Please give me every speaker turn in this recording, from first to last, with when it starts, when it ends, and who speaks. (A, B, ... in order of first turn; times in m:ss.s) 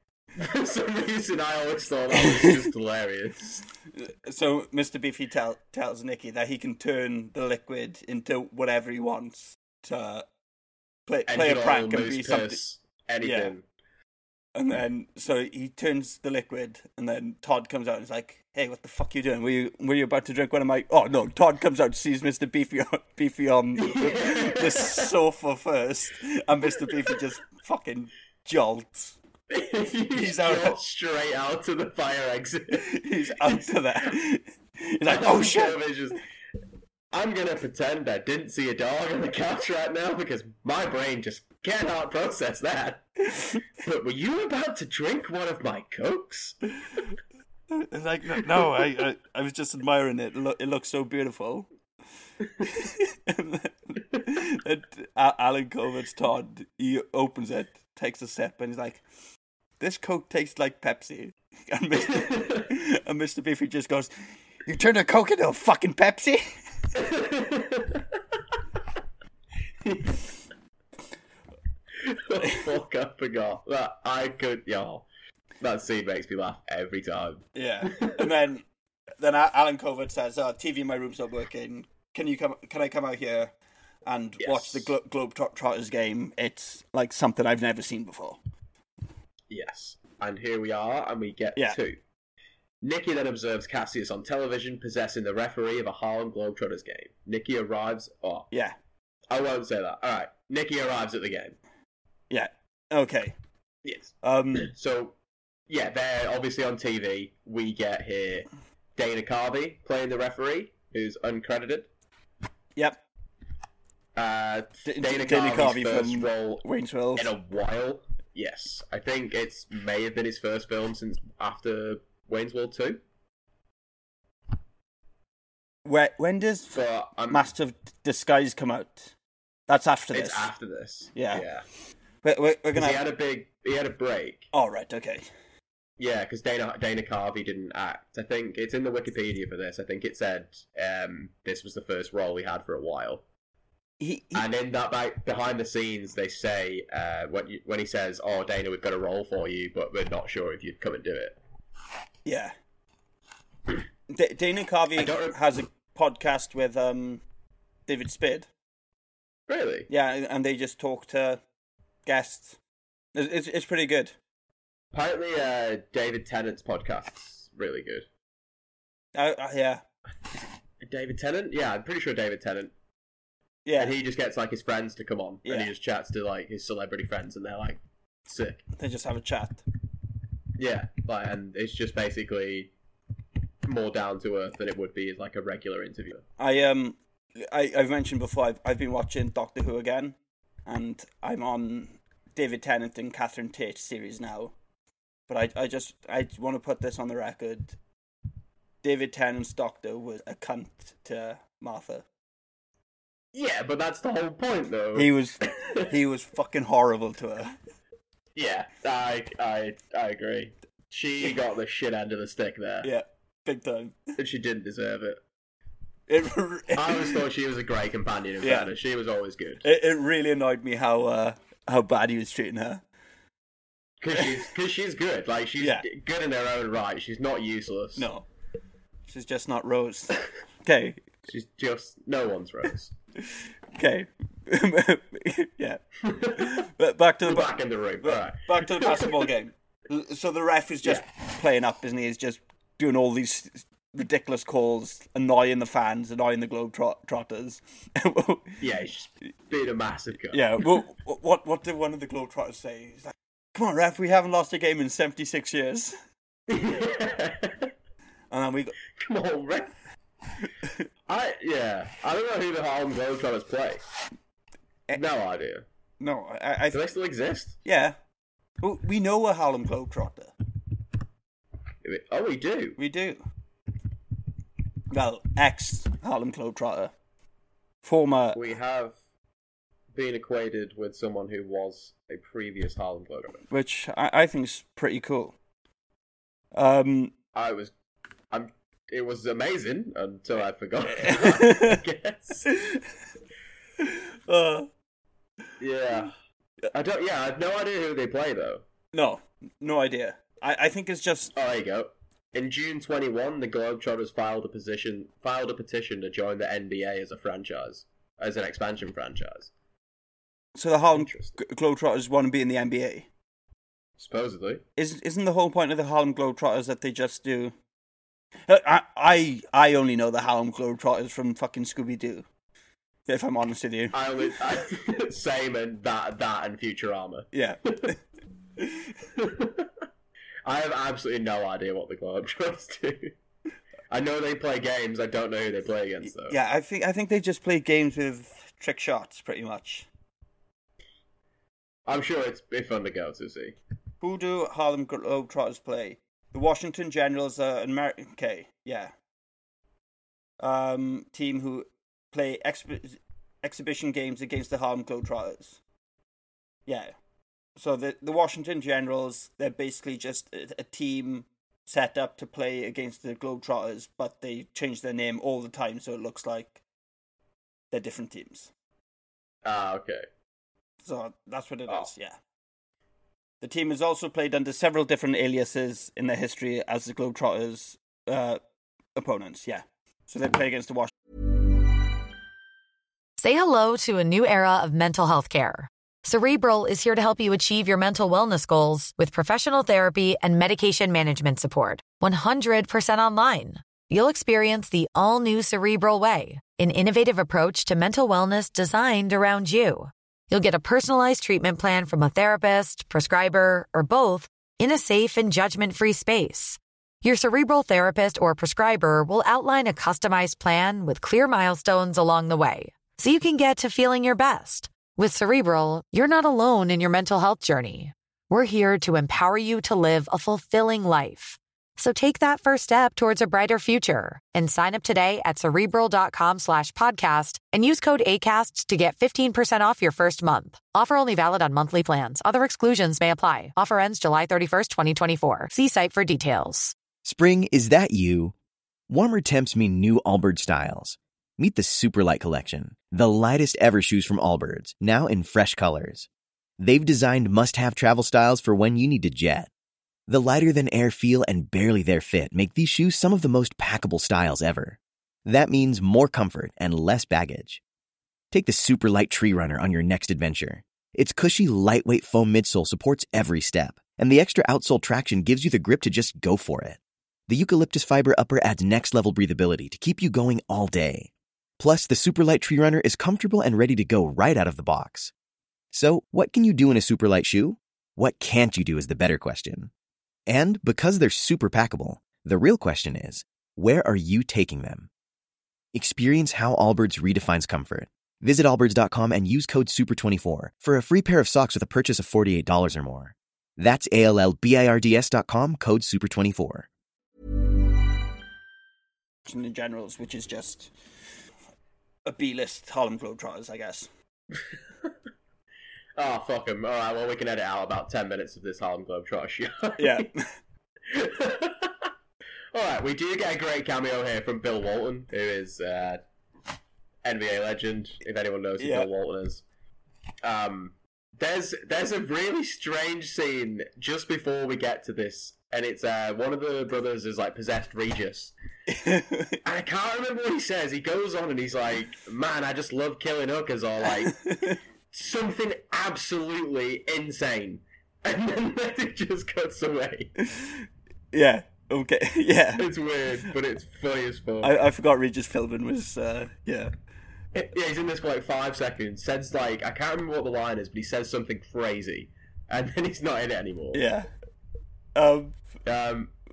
0:00.4-0:03.6 A
0:03.9-0:10.3 B
0:11.1-0:12.6 B
0:11.3-0:13.6 A
0:13.2-0:13.5 B
0:14.6-0:29.2 B
0:23.8-0:25.1 A
0:29.5-0:32.9 A
0:30.1-0:30.8 B
0:32.8-0:35.8 B
0:33.4-0:33.7 A
0:35.0-0:36.2 A
0:37.1-0:43.1 A
0:43.8-0:46.6 A
0:47.7-0:51.7 B
0:52.6-0:59.0 B
0:59.8-1:04.1 B
1:04.7-1:06.4 B
1:07.0-1:08.1 A
1:09.9-1:10.2 A
1:12.0-1:15.1 A
1:15.6-1:18.2 A
1:17.6-1:18.6 B
1:19.2-1:23.5 B
1:24.1-1:28.4 B
1:24.4-1:24.9 A
1:29.5-1:32.0 A
1:32.8-1:38.5 A
1:38.5-1:38.8 B
1:39.3-1:41.6 A
1:42.3-1:43.4 B
1:43.8-1:45.2 A
1:44.2-1:44.7 B
1:45.7-1:51.9 A
1:54.2-2:03.0 A
1:54.8-1:57.3 B
2:05.8-2:09.1 B
2:06.7-2:07.5 A
2:09.7-2:10.5 B
2:10.1-2:11.6 A
2:11.2-2:11.4 B
2:12.2-2:13.0 B
2:12.7-2:14.5 A
2:14.5-2:15.3 B
2:16.0-2:23.2 A
2:24.0-2:24.5 B
2:24.3-2:31.4 A
2:32.2-2:32.5 B
2:34.1-2:37.2 B
2:35.0-2:35.4 A
2:37.9-2:38.5 B
2:39.5-2:39.9 A
2:39.9-2:41.4 B
2:42.1-2:42.6 B
2:43.2-2:44.2 B
2:44.9-2:48.1 A
2:49.2-2:49.8 B
2:50.8-2:52.7 A
2:53.6-2:54.0 B
2:53.8-2:58.6 A
2:55.4-2:55.7 B
2:58.8-2:59.6 B
3:00.6-3:02.7 A
3:03.6-3:06.2 A
3:06.4-3:14.5 B
3:15.3-3:17.8 B
3:18.8-3:22.1 B
3:23.3-3:25.9 A
3:25.0-3:27.6 B
3:28.4-3:32.9 A
3:32.8-3:34.0 B
3:34.2-3:35.2 A
3:36.1-3:37.2 B
3:36.8-3:39.7 A
3:38.4-3:38.7 B
3:39.6-3:42.8 B
3:44.0-3:48.1 A
3:45.6-3:45.9 B
3:48.0-3:48.2 B
3:49.1-3:51.0 B
3:51.3-3:52.9 A
3:53.8-3:55.8 B
3:56.0-3:56.5 A
3:56.4-4:08.6 B
3:57.2-3:59.2 A
4:08.6-4:10.4 A
4:10.3-4:16.0 B
4:16.5-4:17.7 A
4:18.3-4:18.8 B
4:19.0-4:19.7 A
4:21.1-4:23.8 A
4:24.9-4:25.6 A
4:26.0-4:26.8 B
4:26.7-4:27.6 A
4:27.6-4:28.0 B
4:28.6-4:30.3 B
4:31.8-4:32.8 A
4:32.8-4:33.2 B
4:34.9-4:36.9 B
4:37.8-4:38.4 B
4:38.3-4:39.0 A
4:39.9-4:43.4 A
4:43.5-4:45.4 B
4:46.5-4:47.1 B
4:47.3-4:47.7 A
4:48.3-4:52.5 A
4:50.9-4:51.8 B
4:52.5-4:52.8 B
4:53.8-4:54.7 B
4:55.6-4:56.1 A
4:56.7-4:58.6 A
4:58.9-5:01.3 B
5:01.3-5:09.5 A
5:10.6-5:13.1 B
5:11.0-5:11.4 A
5:14.0-5:14.6 A
5:14.8-5:17.5 B
5:18.5-5:22.3 B
5:23.1-5:24.0 B
5:23.9-5:27.9 A
5:27.3-5:28.0 B
5:28.6-5:28.9 B
5:29.2-5:29.7 A
5:30.4-5:33.1 A
5:33.9-5:36.4 A
5:36.1-5:39.9 B
5:41.9-5:43.6 A
5:44.0-5:48.9 B
5:50.4-5:55.6 B
5:56.7-5:56.9 B
5:57.6-6:06.6 B
6:07.7-6:08.5 B
6:09.4-6:10.1 A
6:10.8-6:12.2 B
6:13.4-6:18.4 B
6:19.0-6:20.9 B
6:23.2-7:16.8 C
7:17.0-7:18.4 D
7:18.9-7:26.1 D
7:26.6-7:29.5 D
7:30.1-7:37.6 D
7:38.3-7:55.1 D
7:55.7-7:59.7 D
8:00.3-8:04.9 D
8:05.7-8:16.7 D
8:19.3-8:20.7 B
8:22.1-8:23.9 B
8:26.0-8:30.1 A
8:29.8-8:30.3 B
8:30.9-8:31.9 A
8:32.5-8:36.0 A
8:37.0-8:39.4 A
8:38.6-8:38.9 B
8:40.2-8:48.3 A
8:48.7-8:49.4 B
8:49.4-8:54.2 A
8:54.1-8:54.6 B
8:54.9-9:00.1 A
9:00.2-9:02.7 B
9:02.6-9:04.6 A
9:04.4-9:06.7 B
9:07.3-9:13.8 A
9:13.7-9:14.1 B
9:15.0-9:15.4 B
9:15.6-9:16.1 A